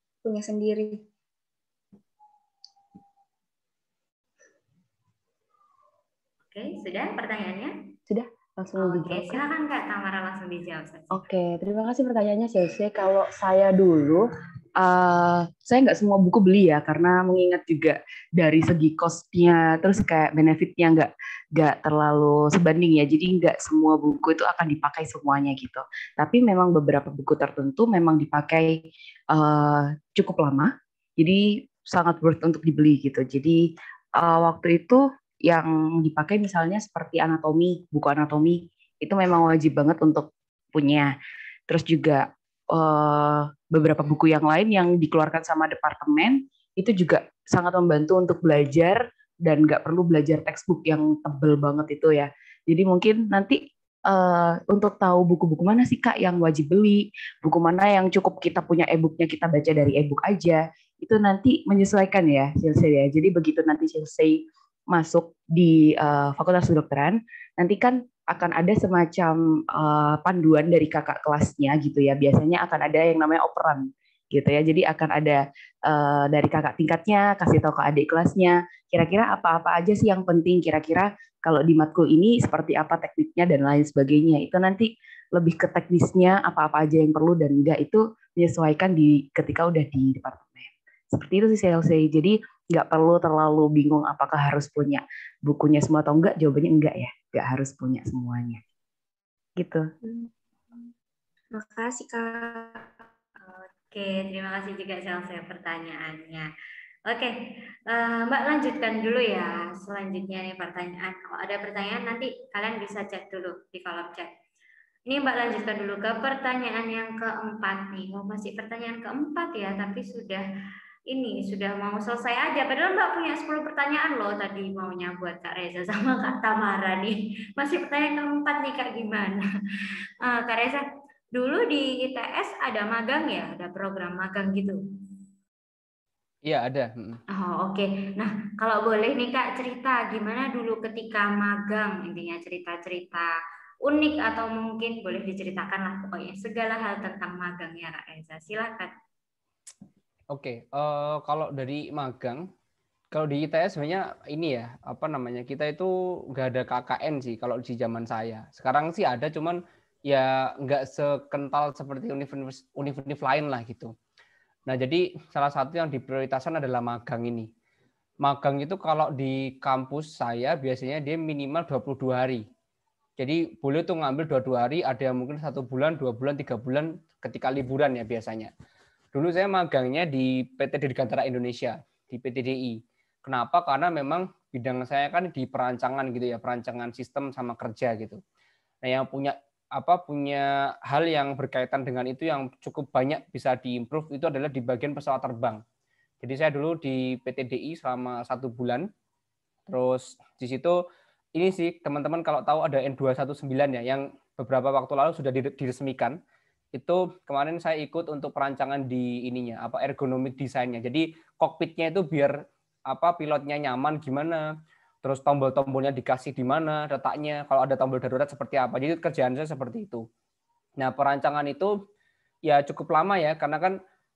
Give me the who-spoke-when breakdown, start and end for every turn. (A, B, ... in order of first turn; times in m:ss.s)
0:00.2-0:01.0 A
0:06.5-0:07.7 B
0:08.1-0:09.4 C
0:08.8-0:11.2 B
0:11.1-0:14.2 C
0:14.8-0:33.6 C
0:34.2-0:41.1 C
0:41.7-1:38.6 C
1:39.6-1:39.9 C
1:40.0-1:40.9 A
1:41.5-1:42.9 A
1:43.4-1:46.5 B
1:47.1-1:47.3 B
1:47.9-1:54.3 B
1:55.1-2:00.4 B
2:01.1-2:09.4 B
2:10.2-2:14.8 B
2:16.4-2:17.2 D
2:17.3-2:23.3 B
2:23.8-2:28.9 B
2:30.3-2:32.4 D
2:33.1-2:43.9 D
2:44.7-2:47.5 D
2:48.2-2:52.4 D
2:53.2-2:58.5 D
2:59.1-3:08.2 D
3:08.8-3:15.6 D
3:16.2-3:18.8 D
3:19.7-3:20.8 D
3:21.4-3:26.2 D
3:26.8-3:32.3 D
3:32.9-3:34.5 D
3:35.0-3:40.0 D
3:40.8-3:41.7 D
3:42.5-3:43.8 D